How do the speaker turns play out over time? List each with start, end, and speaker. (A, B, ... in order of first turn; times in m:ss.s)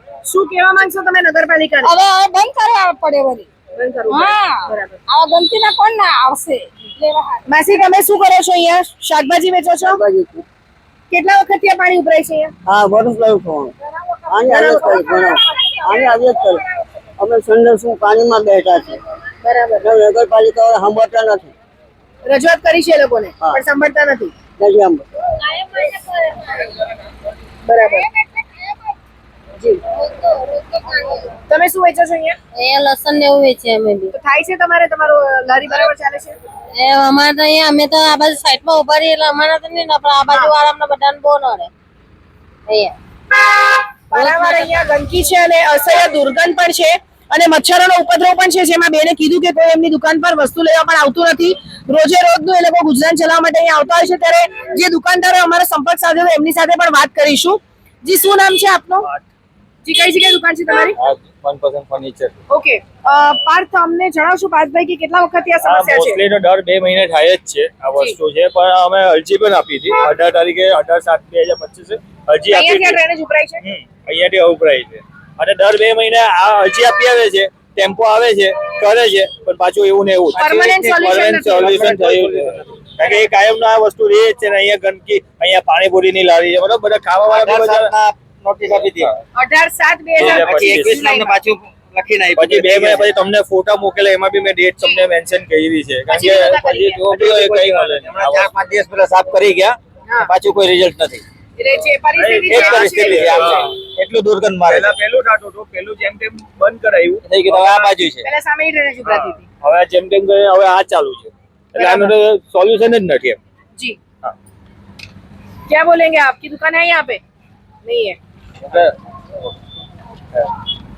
0:00.2-0:01.9 A
0:01.8-0:03.5 B
0:03.8-0:05.0 A
0:04.1-0:07.4 B
0:07.5-0:10.0 A
0:09.9-0:10.4 C
0:11.1-0:12.5 A
0:12.6-0:13.7 C
0:13.9-0:15.2 A
0:14.3-0:16.6 C
0:17.2-0:18.9 C
0:19.4-0:19.9 A
0:19.8-0:21.5 C
0:22.2-0:24.3 A
0:24.6-0:25.0 C
0:25.4-0:26.8 D
0:27.6-0:28.1 A
0:28.1-0:28.7 D
0:29.9-0:31.3 D
0:31.5-0:32.4 A
0:32.5-0:34.1 D
0:34.1-0:36.4 A
0:36.7-0:41.7 D
0:42.7-0:42.9 D
0:44.1-0:59.1 A
0:44.1-0:44.7 D
0:59.8-1:01.0 A
1:01.0-1:02.3 E
1:02.5-1:06.2 A
1:05.6-1:13.0 E
1:12.5-1:13.6 A
1:13.6-1:27.9 E
1:20.3-1:21.8 A
1:21.7-1:22.6 F
1:27.3-1:29.1 F
1:29.3-1:31.4 A
1:30.2-1:31.1 E
1:30.2-1:33.0 F
1:32.3-1:38.5 E
1:36.1-1:37.0 A
1:37.1-1:41.2 F
1:41.6-1:43.7 A
1:42.2-1:43.8 E
1:42.4-1:44.9 F
1:44.6-1:48.2 E
1:47.5-1:47.8 F
1:48.2-1:49.4 A
1:49.0-1:53.4 E
1:51.8-1:52.1 A
1:55.7-1:57.2 A
1:57.8-1:58.2 A
1:58.6-1:58.9 E